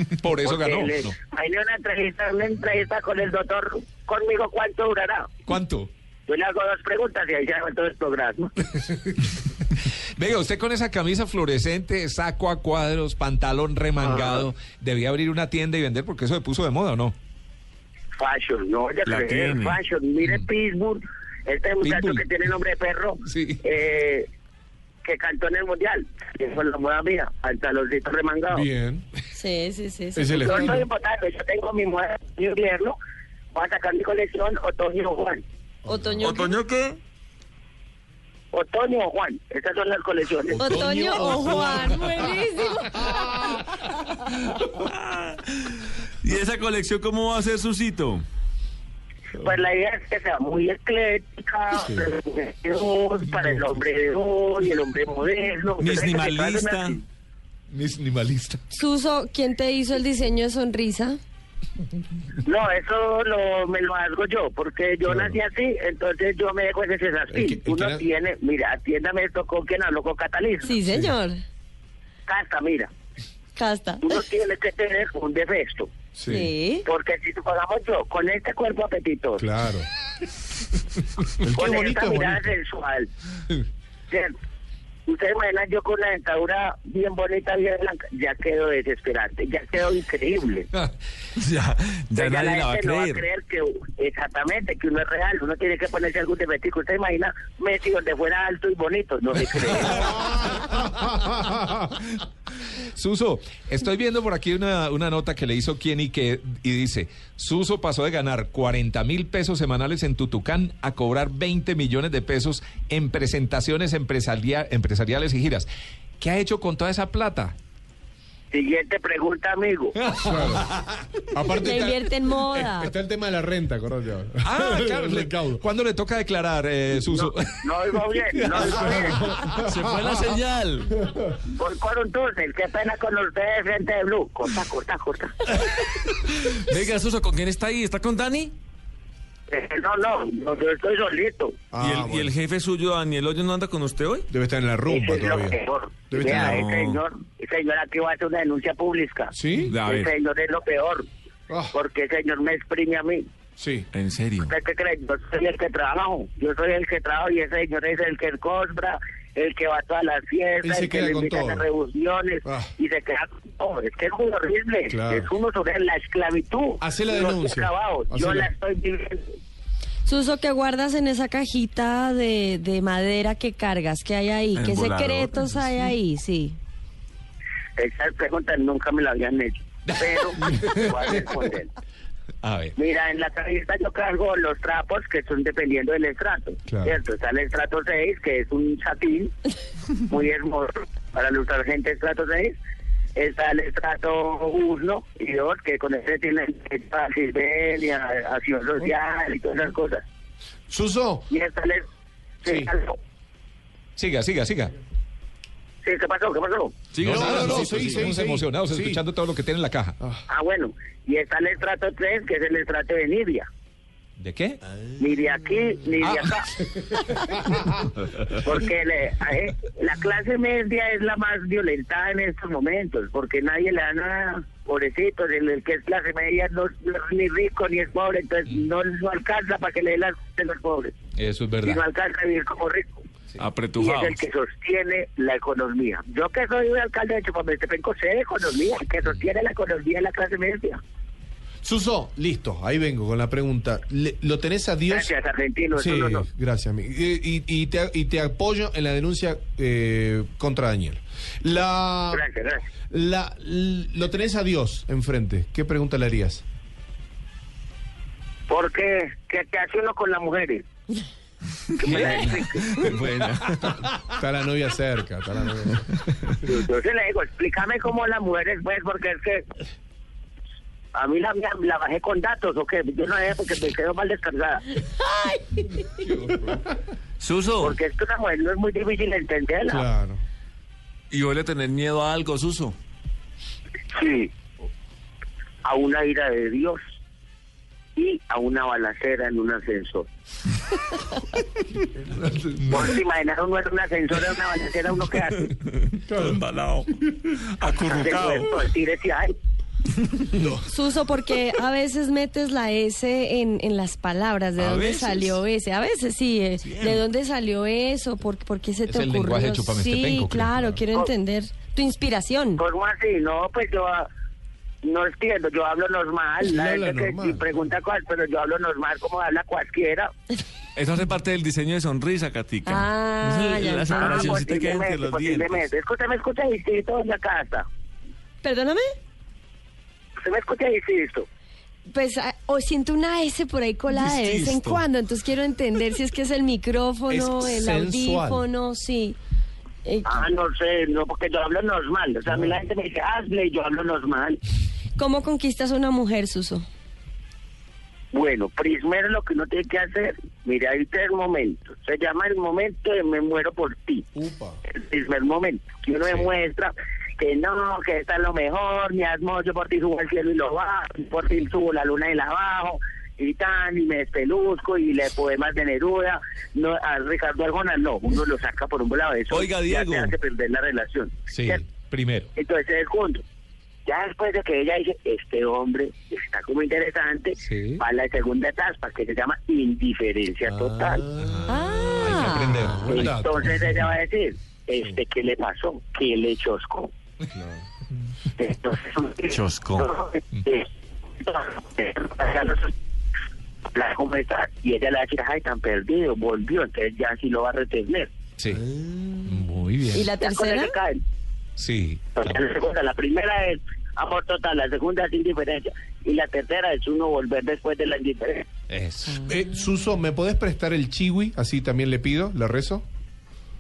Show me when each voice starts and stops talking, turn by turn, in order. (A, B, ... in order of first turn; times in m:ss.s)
0:00.2-0:01.2 A
0:00.4-0:05.3 B
0:05.5-0:05.9 A
0:06.3-0:08.5 B
0:08.8-0:09.6 A
0:10.2-0:17.2 A
0:14.0-0:14.4 C
0:18.2-0:24.3 B
0:19.0-0:19.8 D
0:20.2-0:20.5 A
0:21.8-0:22.3 A
0:23.2-0:23.6 A
0:25.0-0:28.6 B
0:28.5-0:29.0 C
0:29.3-0:30.7 E
0:30.2-0:30.9 C
0:30.4-0:33.0 B
0:33.5-0:35.4 B
0:35.8-0:36.4 C
0:35.9-0:36.6 E
0:36.2-0:37.0 D
0:38.5-0:40.7 B
0:40.6-0:43.7 E
0:40.6-0:41.6 C
0:40.6-0:42.1 A
0:44.5-0:48.2 D
0:49.4-0:57.0 B
0:51.7-0:52.0 C
0:55.8-0:57.0 D
0:57.7-0:58.6 A
0:58.7-1:01.2 E
1:02.4-1:10.8 B
1:05.0-1:05.4 C
1:07.3-1:08.1 C
1:10.6-1:11.4 E
1:12.3-1:12.9 B
1:13.6-1:14.2 E
1:14.0-1:15.9 B
1:16.2-1:16.5 C
1:16.3-1:16.9 E
1:16.8-1:19.5 B
1:19.4-1:19.9 C
1:21.2-1:22.5 C
1:21.6-1:23.1 B
1:25.1-1:30.7 B
1:31.4-1:33.2 D
1:32.2-1:40.1 B
1:39.9-1:41.4 C
1:42.7-1:55.7 A
1:56.2-1:57.6 A
1:58.5-2:00.0 B
2:00.0-2:01.0 A
2:00.2-2:00.7 C
2:01.3-2:02.0 C
2:01.6-2:01.9 A
2:01.6-2:02.9 E
2:02.6-2:05.6 C
2:04.4-2:09.3 A
2:07.1-2:09.2 B
2:08.5-2:10.3 C
2:09.6-2:10.9 D
2:11.0-2:11.3 C
2:11.5-2:15.3 B
2:15.6-2:18.6 D
2:19.5-2:21.6 B
2:21.7-2:22.3 C
2:21.8-2:24.3 D
2:24.3-2:25.6 C
2:24.9-2:31.1 B
2:26.1-2:26.7 C
2:26.2-2:27.0 D
2:29.3-2:29.8 C
2:29.7-2:30.1 D
2:31.5-2:31.8 C
2:31.7-2:33.2 B
2:33.6-2:33.9 C
2:33.9-2:34.6 D
2:34.4-2:49.2 B
2:40.6-2:41.7 C
2:42.4-2:42.7 C
2:44.9-2:45.3 C
2:46.8-2:48.5 C
2:50.0-2:56.6 E
2:54.6-2:55.5 D
2:57.8-3:01.7 B
3:00.0-3:01.1 A
3:02.4-3:02.8 A
3:02.8-3:09.3 B
3:06.7-3:07.0 C
3:10.1-3:12.5 B
3:13.2-3:20.0 B
3:20.7-3:21.3 C
3:21.3-3:21.8 B
3:22.4-3:23.0 B
3:22.4-3:22.7 C
3:24.0-3:24.8 A
3:25.8-3:26.7 B
3:26.9-3:28.1 D
3:27.0-3:29.0 C
3:27.0-3:30.0 A
3:30.3-3:33.5 B
3:34.2-3:34.6 A
3:35.0-3:36.5 B
3:36.8-3:37.9 C
3:38.3-3:50.9 B
3:51.2-3:51.8 A
3:51.6-3:53.0 B
3:53.4-3:54.2 D
3:53.8-4:00.8 B
4:01.6-4:05.2 C
4:04.9-4:06.3 B
4:05.7-4:12.2 C
4:12.1-4:12.6 B
4:12.9-4:16.4 C
4:18.5-4:20.6 B
4:21.8-4:22.7 B
4:21.8-4:24.0 D
4:21.9-4:22.2 C
4:24.1-4:26.6 C
4:26.4-4:29.4 B
4:30.9-4:34.6 B
4:34.8-4:36.2 E
4:36.2-4:36.7 C
4:37.2-4:37.8 D
4:37.6-4:39.8 B
4:39.6-4:40.2 C
4:41.1-4:42.8 D
4:43.9-4:44.3 B
4:45.6-4:46.8 B
4:48.0-4:50.1 B
4:52.0-4:53.0 C
4:52.7-4:55.5 B
4:55.4-4:58.6 D
4:56.1-4:56.4 C
4:57.8-4:59.4 B
5:00.4-5:00.6 C
5:00.7-5:12.6 E
5:04.6-5:05.4 D
5:06.6-5:07.0 D
5:08.9-5:10.5 A
5:10.5-5:10.8 C
5:12.6-5:14.1 B
5:14.8-5:20.1 B
5:16.4-5:17.6 C
5:20.8-5:25.6 D
5:22.7-5:24.4 E
5:23.9-5:27.6 B
5:28.4-5:28.8 E
5:30.2-5:31.3 B
5:31.9-5:39.2 E
5:37.1-5:38.4 C
5:39.8-5:40.2 E
5:40.0-5:44.4 B
5:45.0-5:46.6 E
5:48.1-5:54.0 B
5:54.2-5:54.6 C
5:54.7-6:11.6 B
6:09.3-6:10.1 D
6:11.3-6:12.3 A
6:12.4-6:13.2 B
6:13.9-6:21.0 B
6:17.4-6:17.8 A
6:20.4-6:21.6 C
6:21.2-6:23.6 A
6:21.5-6:22.6 E
6:22.7-6:23.8 C
6:22.8-6:26.9 B
6:27.3-6:27.6 C
6:28.4-6:30.7 B
6:29.3-6:29.9 D
6:31.2-6:32.7 B
6:33.7-6:38.1 B
6:38.4-6:38.7 A
6:39.2-6:40.1 A
6:39.9-6:40.8 E
6:40.2-6:41.0 B
6:41.6-6:42.4 A
6:42.2-6:48.4 B
6:48.7-6:49.3 A
6:49.2-6:52.8 C